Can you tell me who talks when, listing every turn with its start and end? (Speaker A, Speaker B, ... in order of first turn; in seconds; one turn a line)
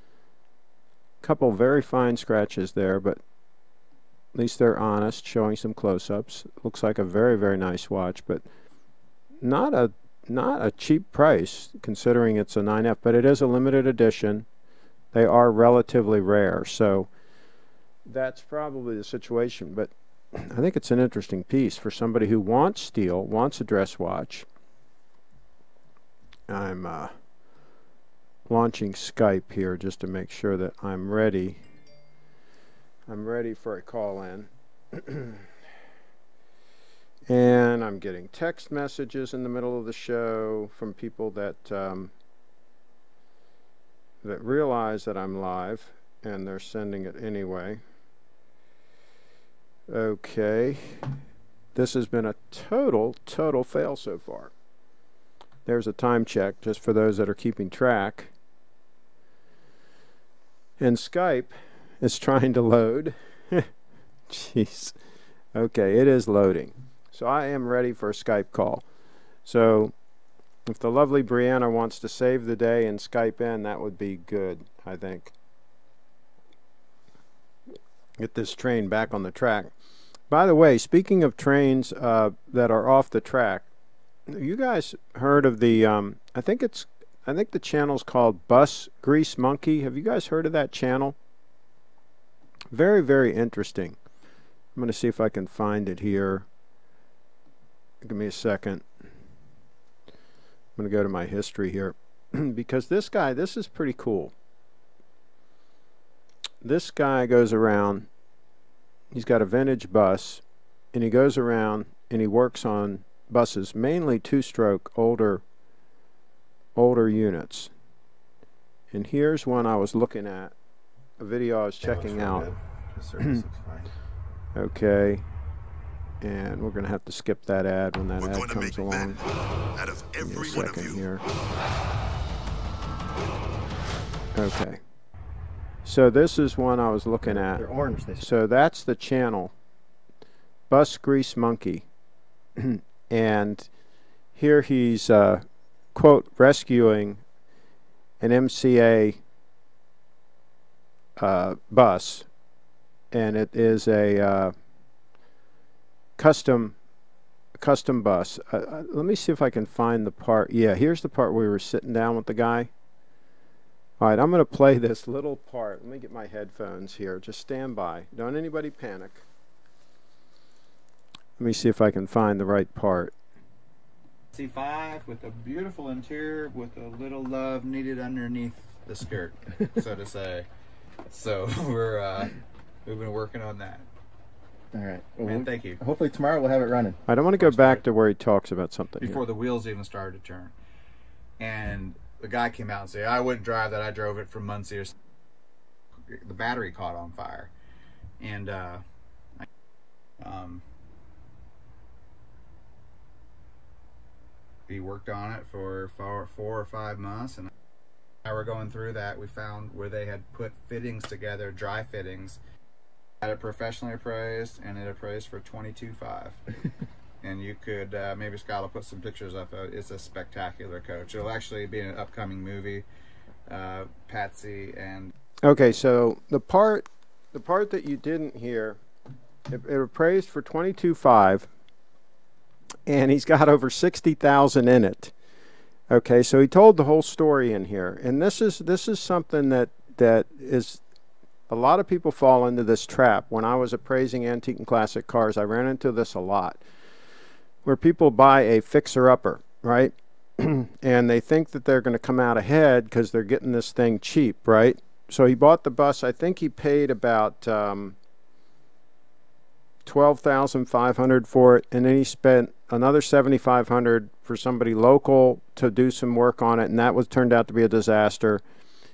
Speaker A: 1.2-3.2
Speaker A: 4.3-8.4
Speaker A: 9.4-14.4
Speaker A: 15.1-17.1
Speaker A: 18.1-24.4
Speaker A: 26.5-27.1
Speaker A: 28.5-31.6
Speaker A: 33.1-35.5
Speaker A: 37.3-42.1
Speaker A: 44.2-47.8
Speaker A: 49.9-51.0
Speaker A: 51.7-54.5
Speaker A: 55.6-58.3
Speaker A: 60.8-63.7
Speaker A: 64.3-64.9
Speaker A: 65.5-68.8
Speaker A: 69.4-69.9
Speaker A: 70.7-75.3
Speaker A: 78.2-79.7
Speaker A: 80.3-83.7
Speaker A: 84.3-91.2
Speaker A: 92.7-94.0
Speaker A: 94.7-96.5
Speaker A: 98.0-98.8
Speaker A: 100.8-104.3
Speaker A: 106.6-108.1
Speaker A: 109.1-115.4
Speaker A: 116.7-117.7
Speaker A: 118.9-120.5
Speaker A: 121.2-122.5
Speaker B: 121.8-123.9
Speaker A: 124.5-125.2
Speaker A: 126.2-129.2
Speaker A: 129.8-131.2
Speaker A: 134.3-134.8
Speaker A: 135.8-139.5
Speaker C: 137.4-138.2
Speaker A: 140.7-141.8
Speaker A: 142.6-143.7
Speaker A: 144.3-145.4
Speaker A: 145.9-147.2
Speaker A: 148.2-149.2
Speaker A: 151.2-152.3
Speaker A: 153.1-154.5
Speaker A: 156.2-156.8
Speaker A: 157.6-162.7
Speaker A: 164.0-169.2
Speaker A: 171.4-173.1
Speaker B: 174.3-180.4
Speaker B: 181.1-183.9
Speaker C: 184.7-187.0
Speaker B: 185.2-185.8
Speaker A: 187.1-189.2
Speaker B: 187.4-187.8
Speaker B: 189.0-190.5
Speaker B: 191.4-194.9
Speaker B: 195.9-197.5
Speaker B: 198.2-198.8
Speaker B: 200.2-200.6
Speaker B: 204.7-207.5
Speaker B: 208.2-212.4
Speaker B: 213.2-216.4
Speaker B: 217.2-222.8
Speaker B: 223.5-225.1
Speaker A: 225.4-228.8
Speaker A: 229.5-231.5
Speaker A: 232.9-235.1
Speaker A: 235.9-240.8
Speaker A: 241.5-246.6
Speaker A: 247.6-257.9
Speaker A: 259.8-268.4